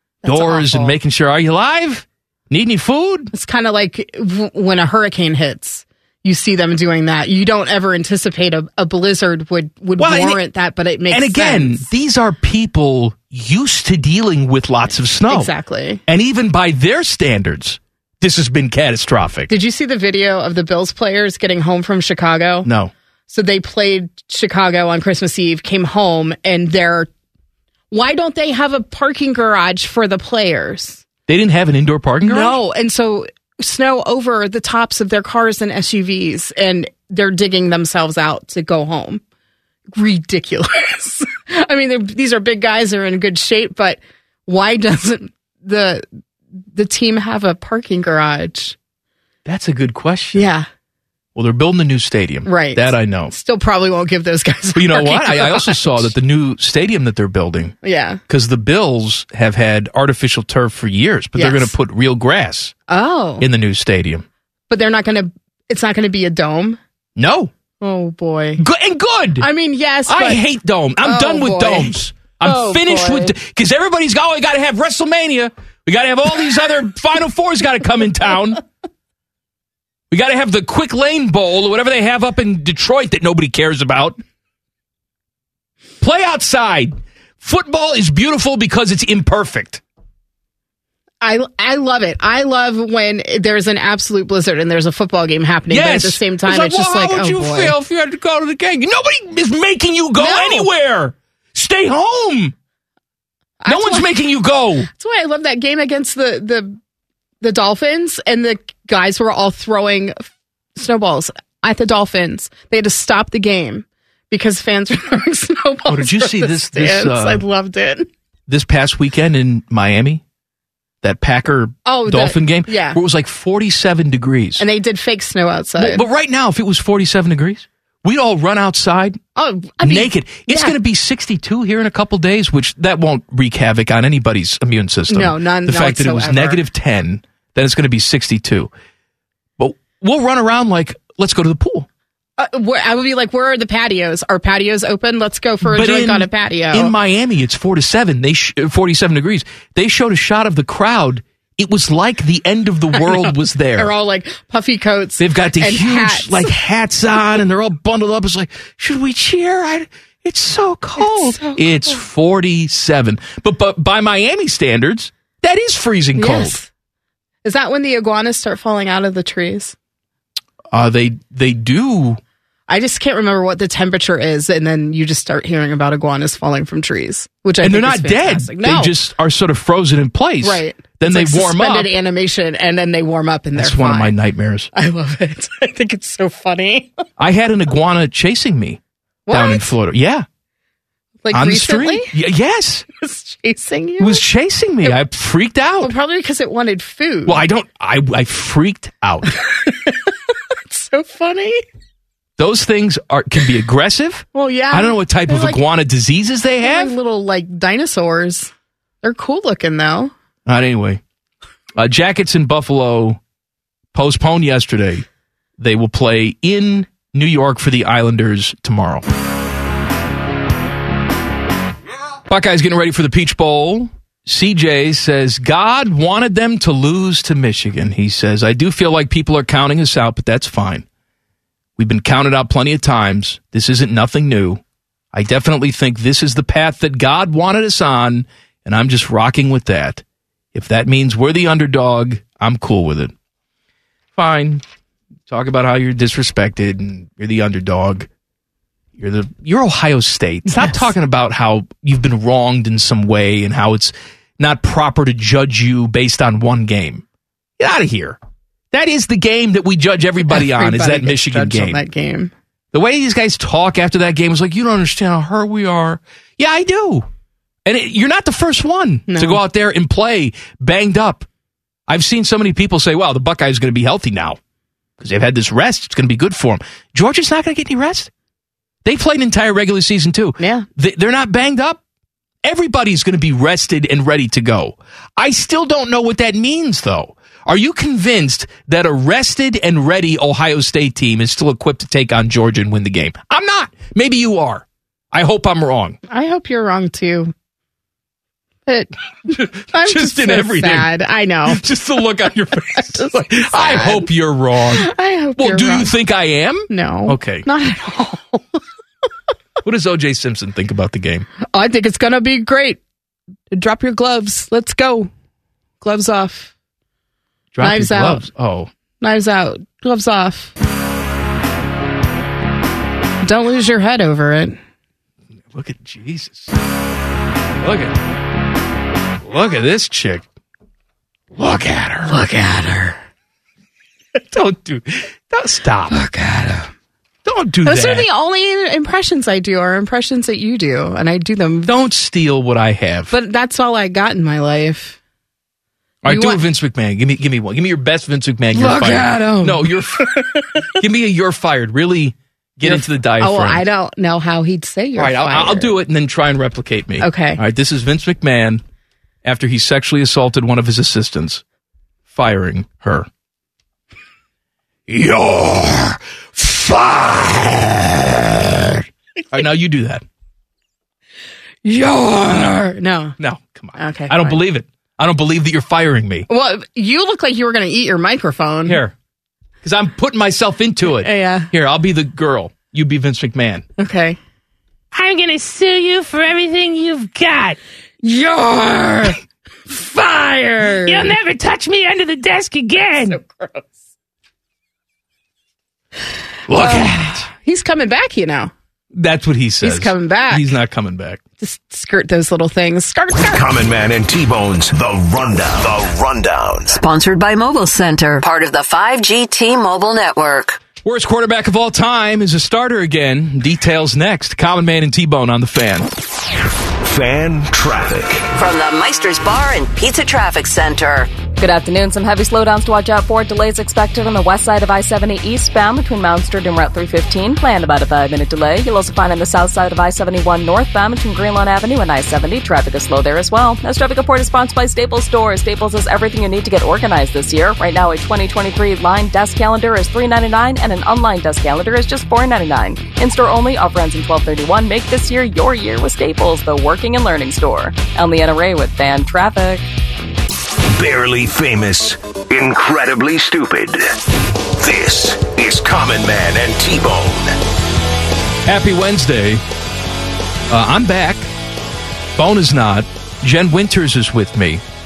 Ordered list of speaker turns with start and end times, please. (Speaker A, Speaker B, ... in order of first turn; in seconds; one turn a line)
Speaker A: 0.2-0.9
Speaker B: 0.2-3.3
Speaker A: 3.3-11.8
Speaker B: 10.0-10.4
Speaker B: 11.1-15.5
Speaker A: 15.3-16.0
Speaker B: 16.1-19.5
Speaker A: 19.5-22.7
Speaker B: 22.6-22.9
Speaker A: 23.3-27.1
Speaker A: 27.9-31.0
Speaker B: 31.3-32.6
Speaker A: 32.2-39.2
Speaker A: 39.9-46.0
Speaker A: 46.7-48.8
Speaker B: 49.4-50.5
Speaker A: 50.3-50.7
Speaker B: 51.3-53.3
Speaker A: 52.5-56.1
Speaker B: 54.8-57.8
Speaker A: 57.8-58.2
Speaker B: 58.3-62.7
Speaker A: 61.4-61.7
Speaker A: 62.9-63.5
Speaker B: 63.4-64.2
Speaker A: 64.7-66.8
Speaker B: 67.2-67.5
Speaker A: 67.8-68.6
Speaker B: 68.6-69.5
Speaker A: 69.4-70.4
Speaker B: 70.1-78.6
Speaker A: 71.0-73.3
Speaker B: 80.1-84.2
Speaker B: 86.0-89.8
Speaker A: 91.2-97.7
Speaker B: 95.7-102.5
Speaker A: 100.2-100.7
Speaker A: 103.6-104.1
Speaker B: 103.7-104.9
Speaker A: 104.9-106.8
Speaker A: 107.4-118.1
Speaker B: 115.9-117.4
Speaker B: 118.5-120.2
Speaker B: 121.0-124.6
Speaker A: 121.8-123.0
Speaker A: 124.6-126.0
Speaker B: 125.8-129.2
Speaker A: 129.3-130.7
Speaker B: 129.8-138.7
Speaker A: 135.1-136.6
Speaker B: 139.6-141.9
Speaker A: 142.4-146.9
Speaker B: 145.6-153.9
Speaker A: 153.8-156.5
Speaker B: 155.2-166.6
Speaker A: 161.0-162.0
Speaker A: 166.2-166.7
Speaker A: 167.4-169.7
Speaker B: 170.7-172.2
Speaker A: 172.7-178.9
Speaker B: 177.6-181.9
Speaker A: 180.4-184.1
Speaker B: 183.6-184.7
Speaker A: 184.7-187.0
Speaker B: 187.2-190.2
Speaker A: 189.3-189.7
Speaker A: 191.2-192.1
Speaker B: 191.3-192.8
Speaker A: 193.0-194.2
Speaker B: 194.0-195.9
Speaker A: 195.8-197.4
Speaker B: 197.2-199.3
Speaker A: 199.3-200.1
Speaker A: 200.7-201.6
Speaker B: 202.4-206.9
Speaker A: 204.3-205.6
Speaker A: 206.6-210.1
Speaker B: 210.4-211.0
Speaker B: 211.8-213.2
Speaker B: 213.9-215.0
Speaker B: 215.6-219.0
Speaker B: 222.3-230.8
Speaker B: 231.8-234.6
Speaker B: 235.1-240.0
Speaker B: 240.5-243.1
Speaker B: 244.1-244.6
Speaker B: 245.3-248.1
Speaker B: 249.0-257.0
Speaker A: 250.5-250.8
Speaker B: 257.6-258.2
Speaker B: 258.7-261.8
Speaker A: 260.3-262.3
Speaker B: 262.7-267.1
Speaker B: 267.6-271.2
Speaker A: 269.1-269.4
Speaker B: 271.9-274.4
Speaker B: 275.0-278.1
Speaker B: 278.8-281.8
Speaker A: 280.4-280.6
Speaker B: 282.4-296.0
Speaker A: 296.1-297.3
Speaker A: 298.7-301.6
Speaker B: 299.3-300.9
Speaker B: 301.5-307.4
Speaker A: 302.9-304.1
Speaker A: 304.7-305.9
Speaker A: 306.7-308.6
Speaker B: 309.6-311.3
Speaker A: 311.5-312.8
Speaker A: 313.5-315.1
Speaker A: 315.8-316.5
Speaker B: 317.5-318.7
Speaker A: 317.6-318.2
Speaker A: 319.0-320.5
Speaker A: 323.2-324.6
Speaker B: 325.5-326.5
Speaker B: 327.6-327.9
Speaker B: 329.2-330.2
Speaker B: 331.4-332.2
Speaker A: 332.1-333.0
Speaker B: 334.2-336.0
Speaker A: 335.9-336.7
Speaker B: 337.2-338.1
Speaker A: 337.6-341.7
Speaker B: 341.6-343.1
Speaker A: 343.1-345.0
Speaker B: 346.0-350.1
Speaker A: 346.0-346.4
Speaker A: 348.5-350.5
Speaker B: 350.8-353.6
Speaker A: 352.6-355.7
Speaker B: 354.9-358.6
Speaker A: 357.0-357.4
Speaker B: 359.2-361.4
Speaker B: 362.1-363.1
Speaker B: 364.9-370.0
Speaker A: 371.6-373.1
Speaker B: 373.2-376.3
Speaker A: 373.8-374.4
Speaker A: 376.3-378.8
Speaker B: 378.6-378.9
Speaker B: 379.6-383.6
Speaker A: 380.9-381.5
Speaker A: 383.8-384.2
Speaker C: 384.9-387.6
Speaker A: 388.0-389.2
Speaker A: 389.7-391.1
Speaker C: 390.8-393.2
Speaker A: 393.0-393.7
Speaker B: 396.5-397.3
Speaker A: 396.5-398.5
Speaker B: 398.9-401.2
Speaker A: 399.6-400.4
Speaker A: 401.4-403.4
Speaker D: 403.3-406.8
Speaker E: 406.7-410.6
Speaker B: 410.8-415.9
Speaker D: 416.8-418.3
Speaker E: 418.3-421.1
Speaker F: 421.4-449.7
Speaker D: 450.7-453.8
Speaker D: 454.6-457.3
Speaker B: 458.4-459.4
Speaker B: 460.5-461.3
Speaker B: 462.1-464.6